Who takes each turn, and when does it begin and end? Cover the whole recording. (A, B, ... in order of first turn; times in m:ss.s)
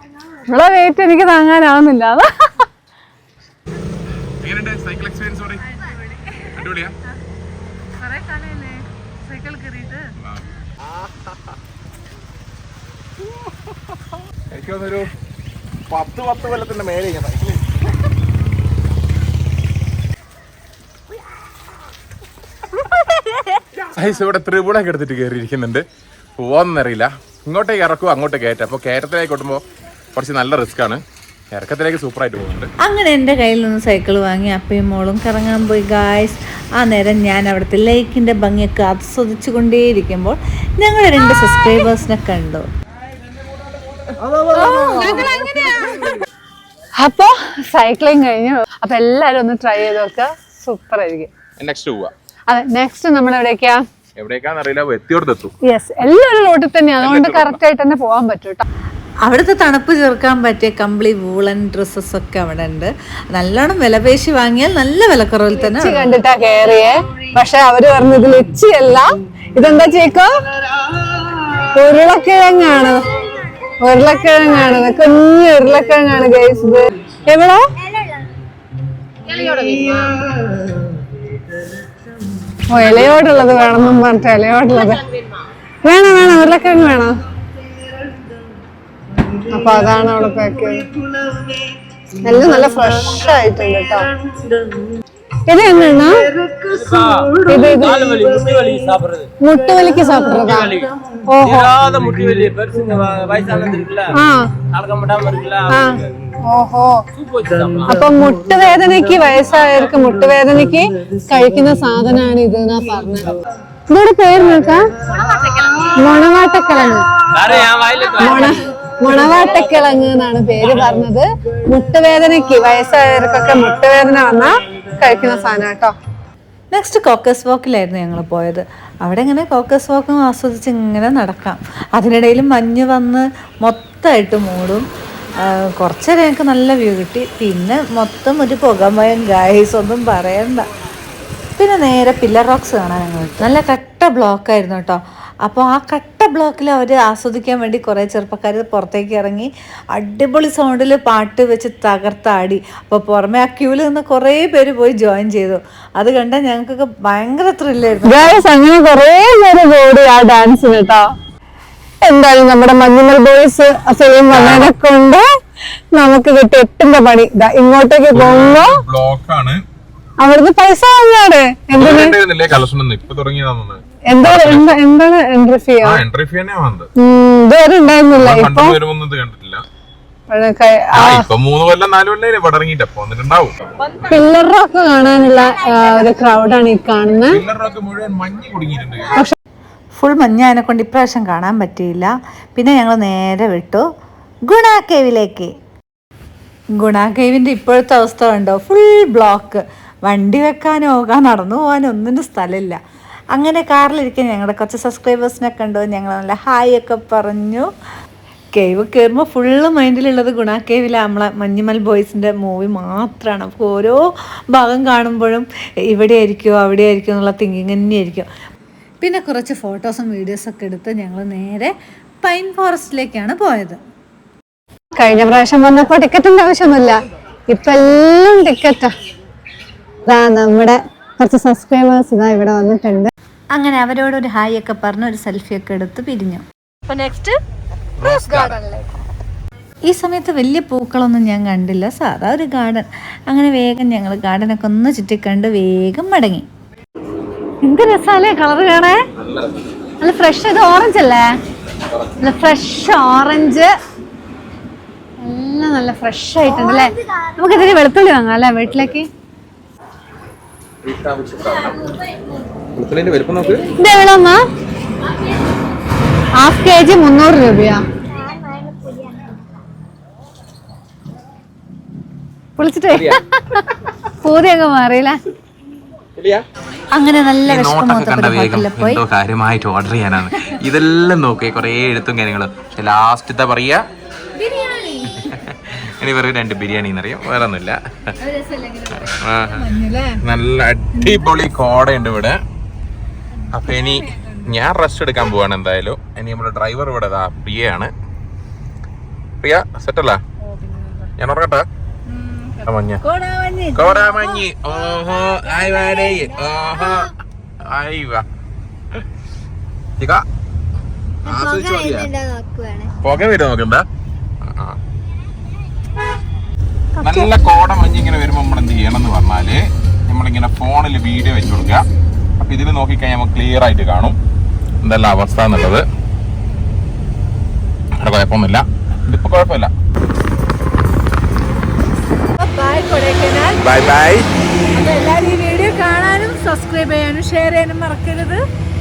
0:00.5-0:02.5 A
0:04.4-0:05.6 B
0:05.8-0:06.5 C
0:06.5-0:06.9 B
0:08.0-0:10.0 C
0:10.2-0:11.4 B
0:14.5-0:15.1 B
0:15.9-0:17.6 B
0:23.8-0:25.8 B
0:26.4-0:32.7 B
0:32.8-0:42.6 D
0:44.3-0:45.5 D
0:44.5-0:46.1 A
0:44.9-0:45.7 C
0:47.0-0:51.3 A
0:51.6-0:52.1 B
0:52.5-0:53.8 A
0:54.2-0:55.5 B
0:55.7-0:58.6 A
0:57.0-0:57.6 B
0:59.2-1:06.0 D
1:05.6-1:09.0 A
1:09.6-1:10.3 A
1:11.7-1:13.1 A
1:13.3-1:15.0 E
1:13.8-1:17.6 A
1:17.8-1:18.3 E
1:19.3-1:19.7 E
1:22.7-1:25.0 A
1:25.8-1:27.1 A
1:29.5-1:30.9 A
1:32.2-1:34.0 A
1:35.5-1:36.3 A
1:36.6-1:39.3 F
1:37.4-1:38.1 A
1:39.4-1:40.7 A
1:40.2-1:40.9 F
1:41.3-1:41.7 A
1:41.4-1:45.9 F
1:44.2-1:44.4 A
1:45.7-1:46.9 A
1:47.2-1:48.0 F
1:47.9-1:53.3 A
1:49.3-1:49.8 F
1:53.9-1:54.8 A
1:55.2-1:55.9 F
1:56.0-1:57.6 A
1:57.3-1:59.8 F
1:58.2-2:05.9 A
1:58.2-1:58.6 C
2:00.6-2:01.1 F
2:06.7-2:14.8 D
2:15.4-2:20.6 D
2:21.6-2:38.4 D
2:38.0-2:41.0 A
2:42.0-2:45.2 A
2:44.3-2:44.8 B
2:46.0-2:48.8 A
2:48.1-2:49.6 B
2:50.2-2:52.2 A
2:51.7-2:54.8 B
2:54.1-2:56.0 A
2:55.8-2:56.9 B
2:57.0-2:58.8 A
2:58.2-2:59.6 B
3:00.3-3:01.2 A
3:00.9-3:04.1 B
3:04.1-3:07.4 A
3:07.3-3:09.2 B
3:09.9-3:13.8 D
3:14.5-3:15.5 D
3:16.8-3:22.8 D
3:23.3-3:27.7 D
3:28.5-3:34.0 D
3:34.5-3:38.3 D
3:39.0-3:41.7 D
3:42.2-3:43.8 D
3:45.0-3:47.0 A
3:47.5-3:48.9 A
3:50.1-3:53.1 A
3:53.5-3:57.3 D
3:58.0-3:58.6 B
3:58.0-3:58.6 D
3:59.9-4:06.4 D
4:07.6-4:09.0 A
4:09.2-4:09.6 B
4:10.0-4:11.3 A
4:11.9-4:12.2 B
4:12.2-4:13.7 A
4:15.2-4:19.1 A
4:20.8-4:21.9 B
4:22.8-4:23.7 B
4:23.8-4:24.4 A
4:26.4-4:27.8 A
4:28.1-4:29.4 E
4:32.6-4:33.2 A
4:32.6-4:33.0 C
4:32.9-4:33.2 B
4:34.2-4:35.2 A
4:36.2-4:36.4 B
4:36.9-4:39.0 D
4:37.4-4:43.8 B
4:44.4-4:44.9 D
4:45.1-4:47.8 B
4:48.3-4:50.2 C
4:48.9-4:52.4 B
4:53.4-4:54.6 C
4:53.5-4:57.9 B
4:59.4-5:00.2 B
5:00.4-5:01.1 C
5:01.2-5:01.6 B
5:02.1-5:02.7 C
5:02.6-5:03.0 B
5:03.0-5:04.4 D
5:03.7-5:07.1 B
5:04.9-5:07.0 E
5:05.6-5:06.1 D
5:07.6-5:08.2 B
5:11.2-5:12.1 B
5:11.2-5:12.9 E
5:13.0-5:13.8 B
5:14.4-5:14.8 B
5:17.0-5:17.3 D
5:17.0-5:21.8 B
5:22.4-5:24.2 B
5:24.8-5:25.8 B
5:28.0-5:29.7 B
5:32.4-5:33.6 C
5:33.6-5:34.3 B
5:34.7-5:38.4 C